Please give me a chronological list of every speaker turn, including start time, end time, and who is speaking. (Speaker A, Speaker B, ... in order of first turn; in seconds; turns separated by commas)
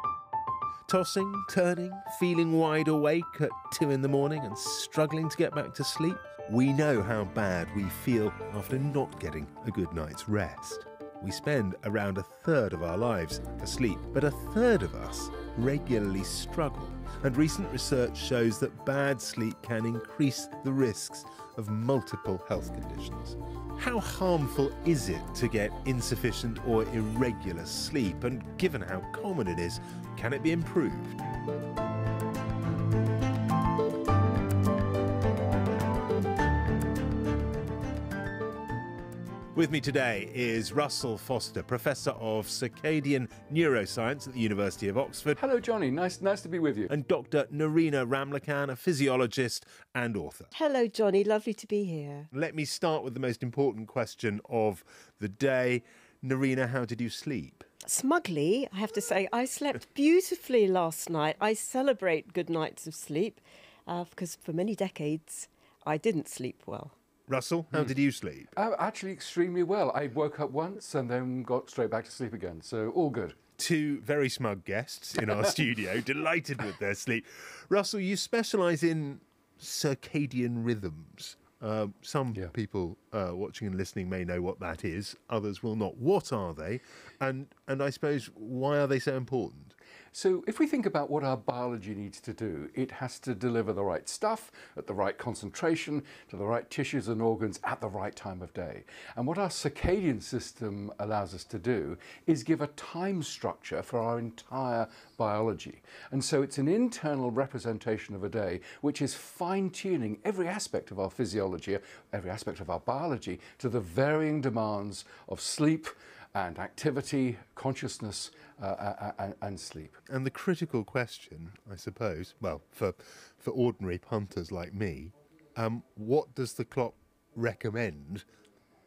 Speaker A: 0.9-31.2, Speaker A: 39.5-45.4, Speaker B: 45.4-46.9, Speaker A: 46.9-50.5, Speaker C: 50.5-52.3, Speaker A: 52.3-57.7, Speaker C: 57.8-67.0, Speaker A: 67.3-68.5, Speaker B: 68.5-73.4, Speaker A: 73.6-89.8, Speaker B: 90.1-120.0, Speaker A: 120.1-128.2